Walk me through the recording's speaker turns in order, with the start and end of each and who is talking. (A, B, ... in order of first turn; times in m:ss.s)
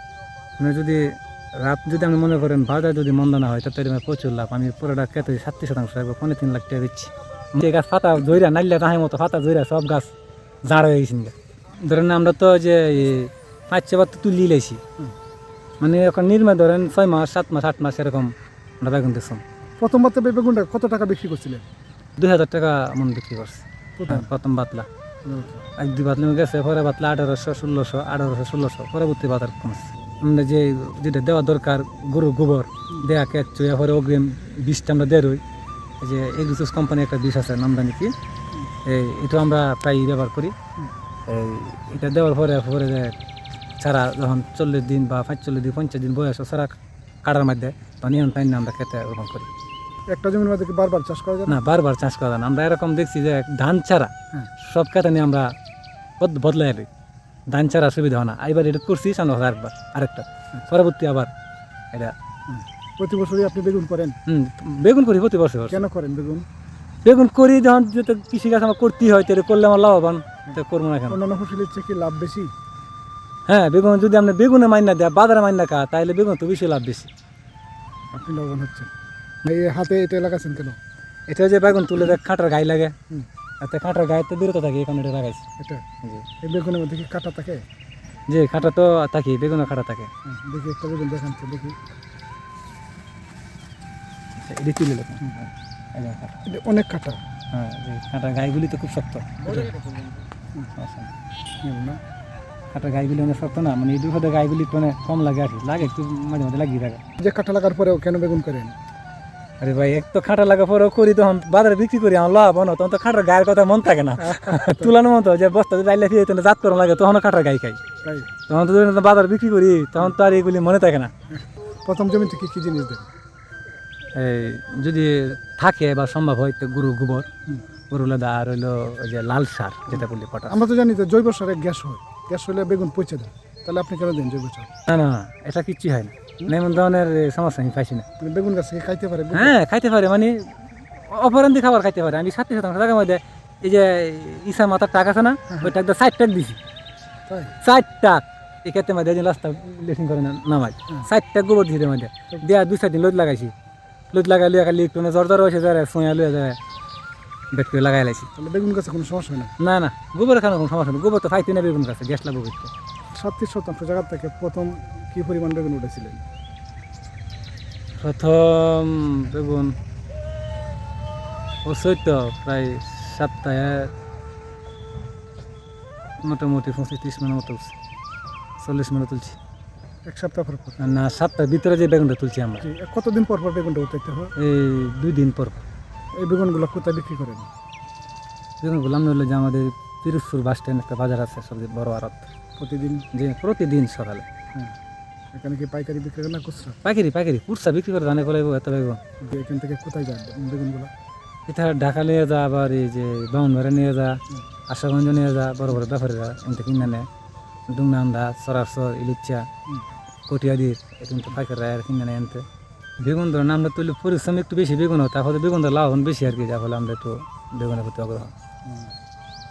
0:00.6-0:10.1 A
0:10.6-0:14.8 A
0:15.8-0:19.4 A
0:19.8-0:21.7 B
0:22.2-0:24.9 A
0:24.0-0:24.3 B
0:25.2-0:25.6 B
0:25.8-0:35.4 A
0:36.0-0:38.1 A
0:38.8-0:40.5 A
0:41.3-0:43.1 A
0:43.8-0:49.5 A
0:50.1-0:51.6 B
0:51.5-0:55.5 A
0:56.2-0:56.9 A
0:57.5-1:01.3 A
1:02.5-1:04.1 B
1:04.3-1:05.8 A
1:05.7-1:06.4 B
1:07.0-1:11.2 A
1:11.1-1:12.5 B
1:13.5-1:17.1 A
1:18.1-1:18.9 B
1:19.4-1:20.8 B
1:21.3-1:22.9 A
1:23.6-1:25.4 A
1:26.4-1:27.6 B
1:28.3-1:30.1 A
1:30.2-1:31.8 B
1:34.4-1:36.4 A
1:36.4-1:37.2 B
1:37.5-1:39.7 A
1:40.7-1:41.1 A
1:41.6-1:42.0 B
1:42.7-1:47.0 A
1:47.2-1:48.7 B
1:49.6-1:57.8 A
1:54.2-1:54.9 B
1:58.0-1:58.3 B
1:58.5-2:01.1 A
2:01.8-2:03.1 B
2:04.1-2:07.3 A
2:07.9-2:10.6 A
2:10.0-2:14.7 B
2:14.9-2:18.0 A
2:18.2-2:19.5 B
2:19.3-2:20.5 A
2:21.1-2:26.6 A
2:27.3-2:27.5 B
2:27.6-2:33.5 A
2:34.1-2:36.6 A
2:37.5-2:38.3 A
2:38.4-2:39.5 B
2:39.6-2:42.7 A
2:43.1-2:46.2 B
2:48.0-2:49.8 A
2:51.6-2:53.9 A
2:56.2-2:57.7 A
2:58.6-2:59.4 A
3:00.0-3:00.8 B
3:00.8-3:02.6 A
3:02.6-3:04.3 B
3:04.4-3:05.6 A
3:06.2-3:07.5 B
3:08.6-3:12.3 A
3:12.6-3:13.0 B
3:13.1-3:14.2 A
3:15.3-3:16.8 B
3:16.8-3:19.0 A
3:19.2-3:20.9 B
3:21.5-3:27.1 A
3:27.7-3:29.5 A
3:30.3-3:32.4 A
3:33.0-3:38.3 A
3:38.6-3:38.9 B